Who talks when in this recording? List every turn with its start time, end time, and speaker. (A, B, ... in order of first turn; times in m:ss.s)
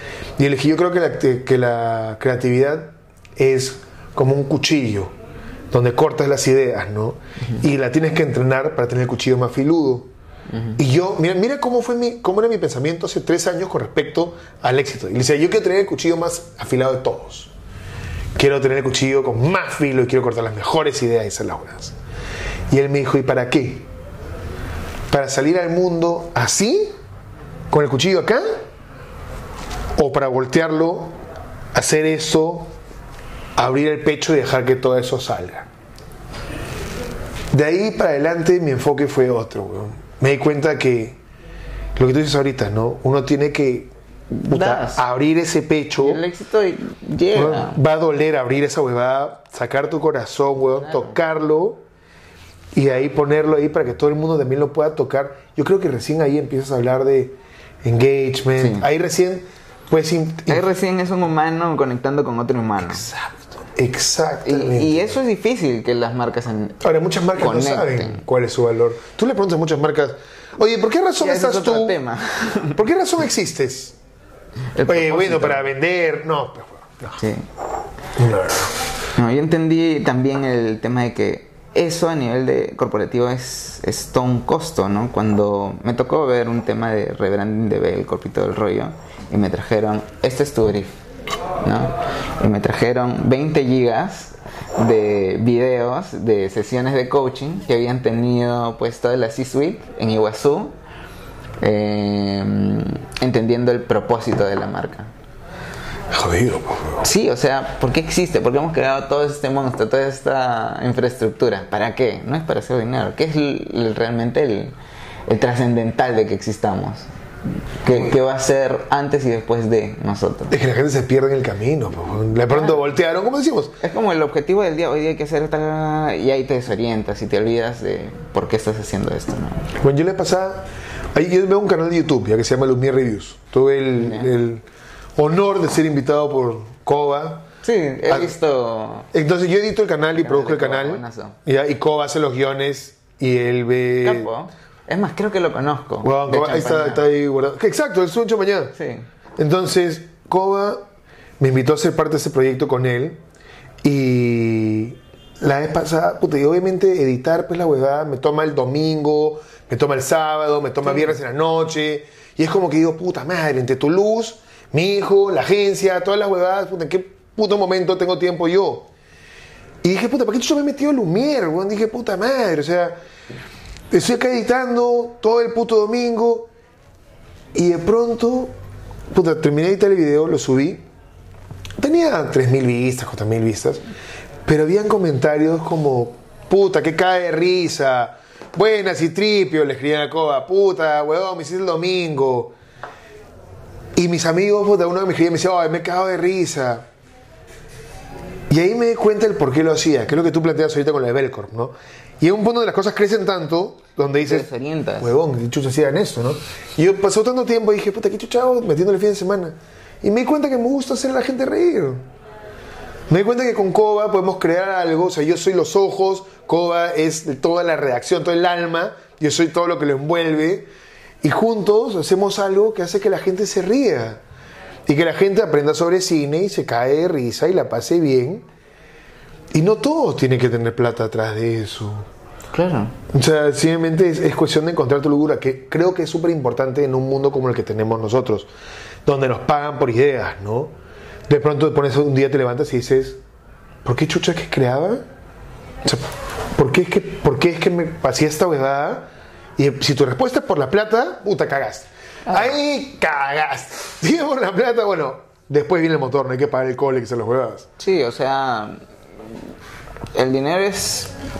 0:00.4-0:05.1 A
0:05.7-0:10.1 A
0:10.5-0:10.8 B
0:10.8-0:17.5 A
0:18.4-0:22.0 A
0:22.7-0:23.8 A
0:25.1-0:27.0 A
0:27.7-0:28.4 A
0:30.0-0:31.1 A
0:31.7-0:32.7 A
0:33.6-0:35.7 A
0:37.5-0:41.2 A
0:42.0-0:46.2 A
0:44.5-0:45.0 B
0:46.0-0:47.8 B
0:47.3-0:51.8 A
0:50.9-0:51.1 B
0:52.7-1:00.6 A
0:58.6-0:58.9 B
1:00.5-1:03.0 B
1:02.8-1:05.2 A
1:04.4-1:06.8 B
1:06.8-1:12.0 A
1:07.4-1:08.2 B
1:11.2-1:12.8 B
1:12.8-1:14.0 A
1:14.7-1:15.6 B
1:14.8-1:17.2 A
1:17.2-1:17.4 B
1:18.2-1:18.7 A
1:19.2-1:31.0 B
1:31.6-1:40.8 B
1:41.6-1:45.1 B
1:46.1-1:47.1 A
1:47.0-1:54.8 B
1:55.3-1:57.1 B
1:57.8-2:00.5 B
2:00.5-2:03.8 A
2:03.8-2:09.7 B
2:09.8-2:14.6 A
2:14.0-2:14.3 B
2:15.2-2:17.5 A
2:17.6-2:19.1 B
2:19.1-2:24.3 A
2:20.2-2:21.4 B
2:24.0-2:27.0 B
2:26.0-2:28.7 A
2:28.8-2:29.0 B
2:29.4-2:30.8 A
2:31.4-2:33.2 A
2:33.8-2:48.9 A
2:40.8-2:41.1 B
2:49.8-2:53.0 A
2:53.9-2:56.5 A
2:57.5-2:58.5 A
2:59.1-3:00.8 A
3:01.8-3:03.8 A
3:04.4-3:12.5 A
3:14.0-3:16.8 A
3:18.5-3:24.5 A
3:24.2-3:25.1 B
3:25.0-3:32.0 A
3:33.1-3:40.7 A
3:41.2-3:44.2 A
3:44.9-3:48.4 A
3:49.5-3:52.1 A
3:52.5-3:52.9 B
3:53.1-3:58.5 A
3:59.0-4:00.7 A
4:01.3-4:03.2 A
4:03.8-4:05.0 A
4:06.6-4:09.0 A
4:09.6-4:17.7 A
4:17.8-4:19.4 B
4:20.1-4:21.1 B